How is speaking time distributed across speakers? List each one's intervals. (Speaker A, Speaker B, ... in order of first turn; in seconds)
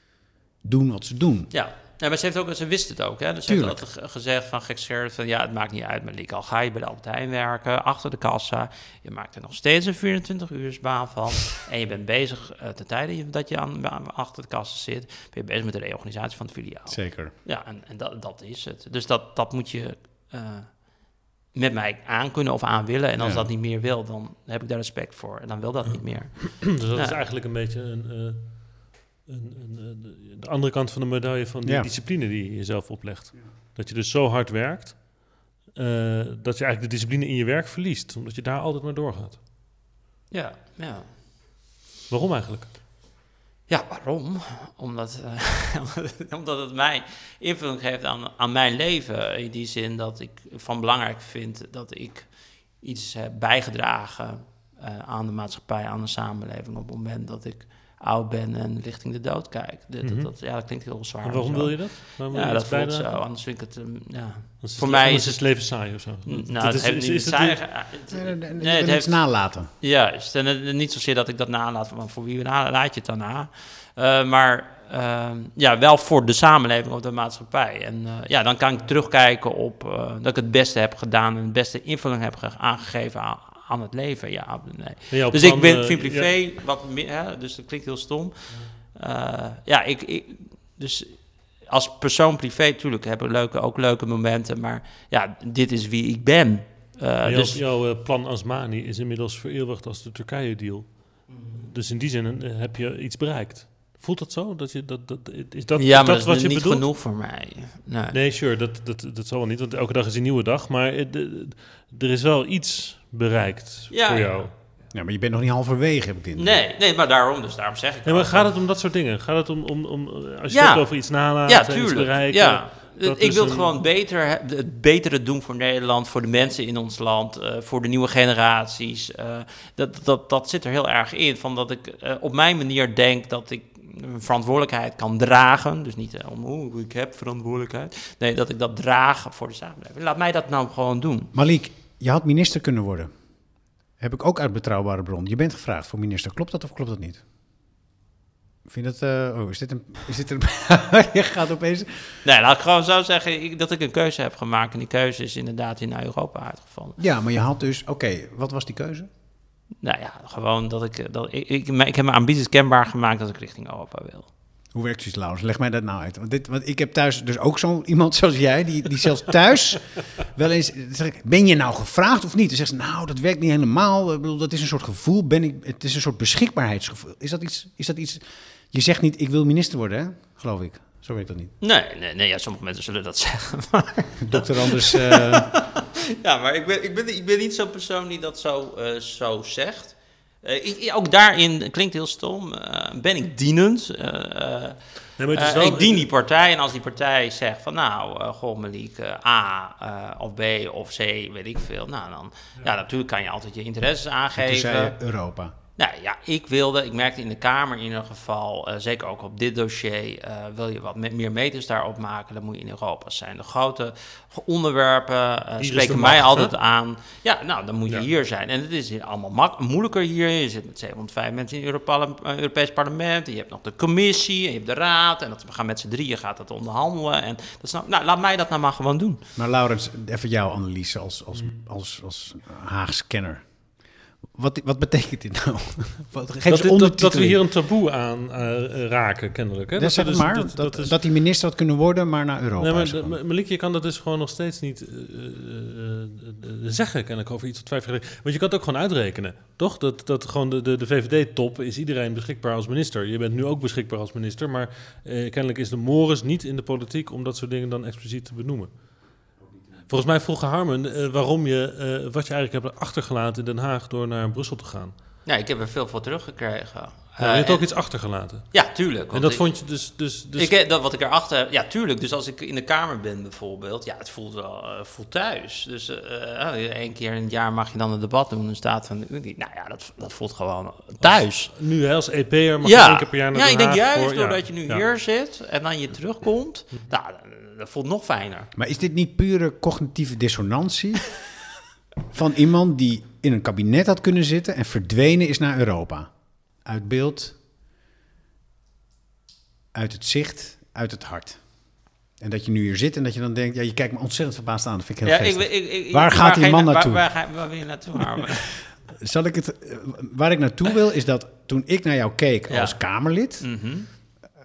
Speaker A: 0.6-1.5, 3.5-3.8, 16.9-17.3, 23.2-23.5, 31.6-31.9, 68.1-69.7, 114.9-116.6, 141.3-143.1, 144.0-147.2, 148.7-152.2, 157.0-159.1, 164.7-181.5, 184.2-185.5, 204.3-205.5, 229.3-237.4, 239.8-243.2, 288.6-291.3, 292.0-297.4, 299.7-307.1, 308.2-313.5
Speaker B: 1.5-27.2, 40.3-41.1, 43.7-97.6, 101.3-101.7, 105.8-108.2, 113.9-114.5, 116.3-118.5, 120.5-141.3, 152.2-157.0, 159.8-164.3, 181.6-205.0, 205.8-229.2, 265.2-269.8, 270.4-281.6, 282.6-288.5, 305.0-308.5, 312.5-312.8, 313.4-313.9
Speaker C: 26.4-39.4, 42.1-42.7, 60.0-63.1, 64.6-67.7, 85.1-86.3, 97.2-106.8, 108.1-114.5, 118.0-123.8, 195.2-196.1, 215.6-216.5, 236.4-241.0, 242.6-259.2, 259.9-264.9, 267.2-270.5, 281.0-284.8